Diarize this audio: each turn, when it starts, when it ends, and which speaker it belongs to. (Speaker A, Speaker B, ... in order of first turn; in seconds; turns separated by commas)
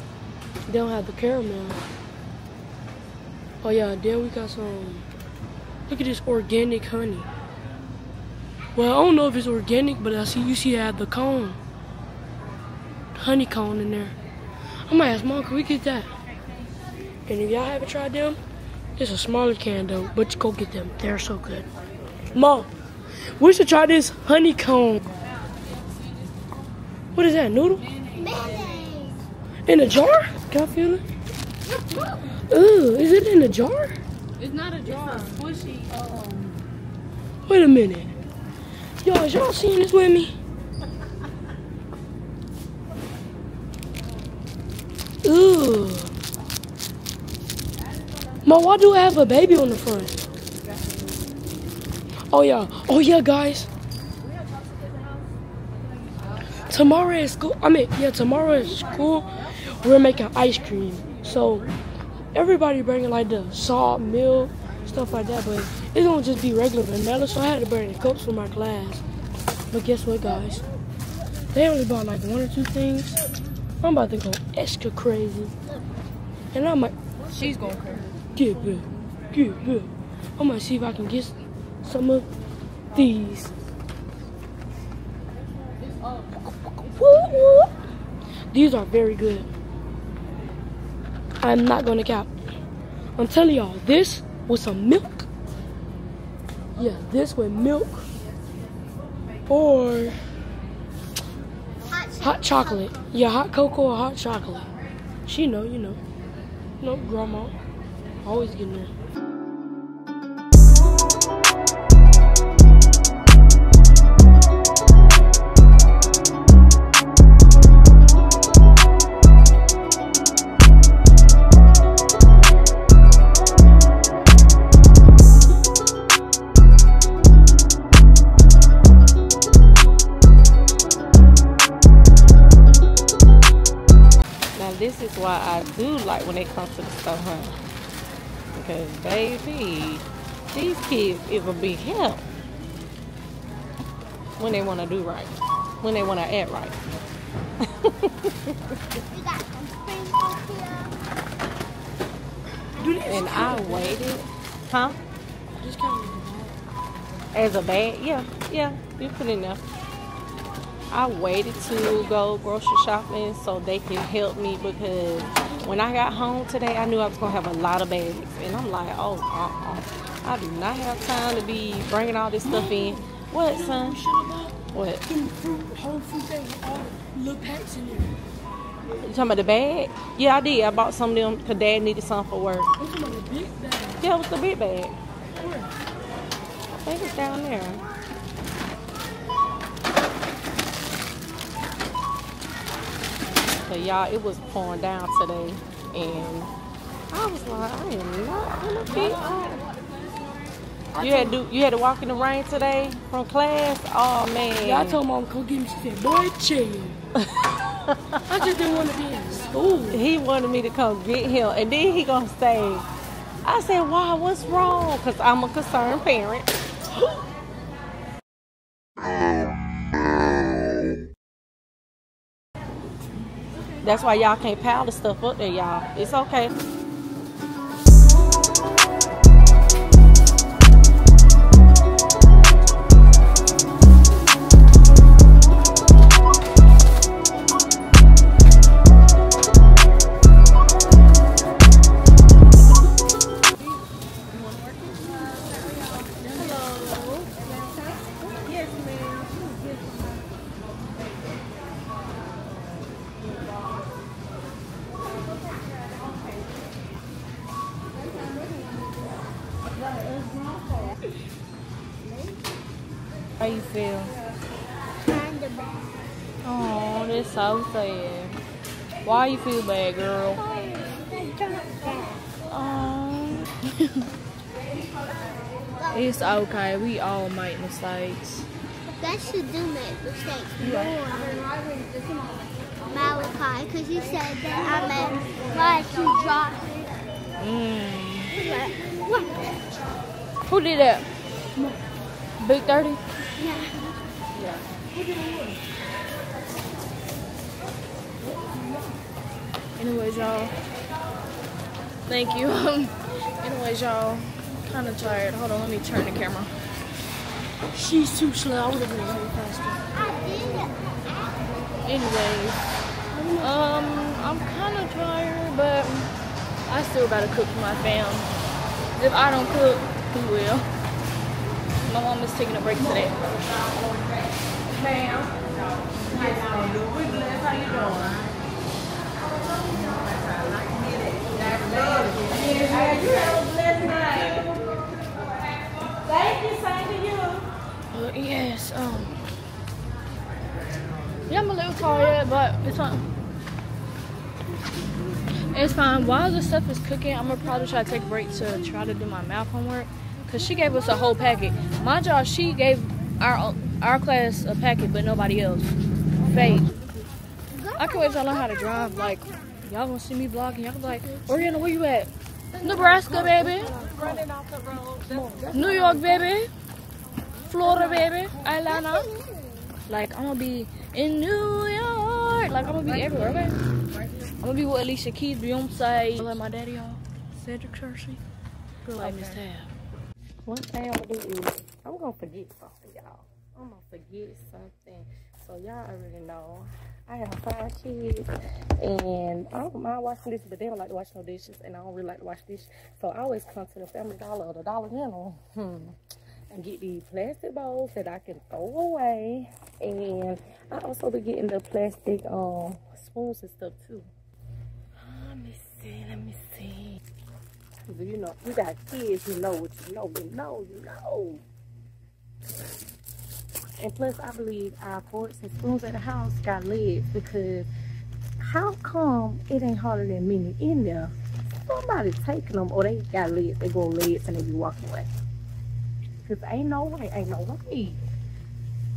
Speaker A: 0.7-1.9, Speaker A: 3.6-5.1, Speaker A: 5.9-7.3, Speaker A: 8.7-11.6, Speaker A: 13.2-14.1, Speaker A: 14.8-16.1, Speaker A: 17.2-18.4, Speaker A: 19.0-21.6, Speaker A: 22.3-22.7, Speaker A: 23.4-25.0, Speaker B: 25.2-26.3, Speaker A: 27.1-27.8, Speaker B: 27.8-28.9, Speaker C: 28.1-29.2, Speaker A: 29.6-31.0, Speaker A: 32.5-34.0, Speaker B: 34.4-35.4, Speaker D: 34.8-36.6, Speaker A: 37.5-38.1, Speaker A: 39.0-40.3, Speaker A: 45.2-46.1, Speaker A: 48.4-50.1, Speaker A: 52.3-53.7, Speaker B: 54.2-55.3, Speaker A: 56.7-61.7, Speaker A: 62.3-69.0, Speaker A: 69.7-70.6, Speaker A: 71.5-73.2, Speaker A: 73.8-75.5, Speaker A: 76.5-76.9, Speaker B: 77.3-78.0, Speaker A: 78.3-82.3, Speaker A: 82.9-83.5, Speaker B: 85.8-87.6, Speaker A: 86.4-87.7, Speaker A: 88.5-89.5, Speaker A: 91.4-92.3, Speaker A: 93.2-95.3, Speaker A: 96.8-98.1, Speaker A: 99.5-100.2, Speaker C: 101.9-103.1, Speaker A: 102.2-104.7, Speaker A: 105.2-106.0, Speaker A: 106.8-107.6, Speaker A: 108.2-108.9, Speaker D: 134.6-137.5, Speaker D: 138.5-142.3, Speaker D: 144.4-146.8, Speaker D: 147.6-148.6, Speaker C: 149.1-151.0, Speaker A: 152.8-154.2, Speaker C: 152.8-153.2, Speaker D: 153.1-155.0, Speaker A: 155.6-156.6, Speaker D: 157.3-159.6, Speaker D: 160.9-174.0, Speaker A: 172.4-178.2, Speaker D: 174.7-175.0, Speaker D: 179.0-182.7, Speaker A: 182.8-184.0, Speaker D: 184.0-184.9, Speaker A: 185.3-185.7, Speaker D: 186.8-187.8, Speaker D: 193.7-196.5, Speaker D: 197.1-199.6, Speaker B: 198.9-200.6, Speaker A: 200.9-201.3, Speaker D: 201.0-205.0, Speaker A: 204.6-207.1, Speaker D: 207.9-208.2, Speaker A: 208.3-210.0, Speaker D: 209.9-212.8, Speaker D: 213.4-216.5, Speaker D: 223.8-226.5, Speaker D: 244.3-245.1, Speaker B: 246.2-246.7, Speaker D: 246.4-246.9, Speaker D: 248.4-249.5, Speaker D: 263.4-264.1, Speaker C: 265.0-265.9, Speaker B: 266.4-268.4, Speaker B: 269.0-270.4, Speaker C: 270.4-272.3, Speaker B: 272.5-274.1, Speaker C: 275.8-276.1, Speaker B: 275.9-278.5, Speaker C: 279.0-281.5, Speaker B: 280.6-281.0, Speaker C: 282.9-286.9, Speaker B: 287.4-288.3, Speaker C: 288.3-289.6, Speaker B: 290.5-291.1, Speaker B: 292.4-293.0, Speaker C: 293.4-293.8, Speaker D: 294.3-294.6, Speaker A: 294.9-295.6, Speaker B: 299.8-300.6, Speaker B: 302.1-306.5, Speaker A: 307.7-309.8, Speaker C: 309.9-311.7, Speaker B: 311.8-312.6, Speaker A: 313.1-313.6, Speaker B: 313.4-316.1, Speaker B: 316.7-318.3, Speaker B: 318.9-320.6, Speaker B: 321.8-323.2, Speaker D: 324.9-325.2, Speaker D: 326.0-328.3, Speaker D: 329.7-334.9, Speaker D: 335.8-337.4, Speaker B: 337.9-339.2, Speaker B: 341.3-343.0, Speaker B: 345.5-355.7, Speaker D: 356.2-356.7, Speaker B: 356.3-356.7, Speaker C: 357.5-359.7, Speaker B: 357.8-362.1, Speaker D: 362.5-365.5, Speaker B: 362.6-363.7, Speaker A: 362.6-364.3, Speaker A: 365.0-366.4, Speaker B: 365.5-366.5, Speaker B: 367.5-369.1, Speaker C: 368.6-369.8, Speaker B: 369.9-373.6, Speaker D: 372.7-373.5, Speaker B: 374.4-377.0, Speaker A: 377.4-378.2, Speaker D: 378.9-379.4, Speaker B: 378.9-379.7, Speaker D: 380.4-388.3, Speaker D: 388.8-395.9, Speaker D: 396.5-404.1, Speaker D: 405.0-407.0, Speaker D: 407.9-411.4, Speaker D: 413.8-417.7, Speaker D: 418.4-421.1, Speaker D: 421.6-425.1, Speaker D: 426.2-428.0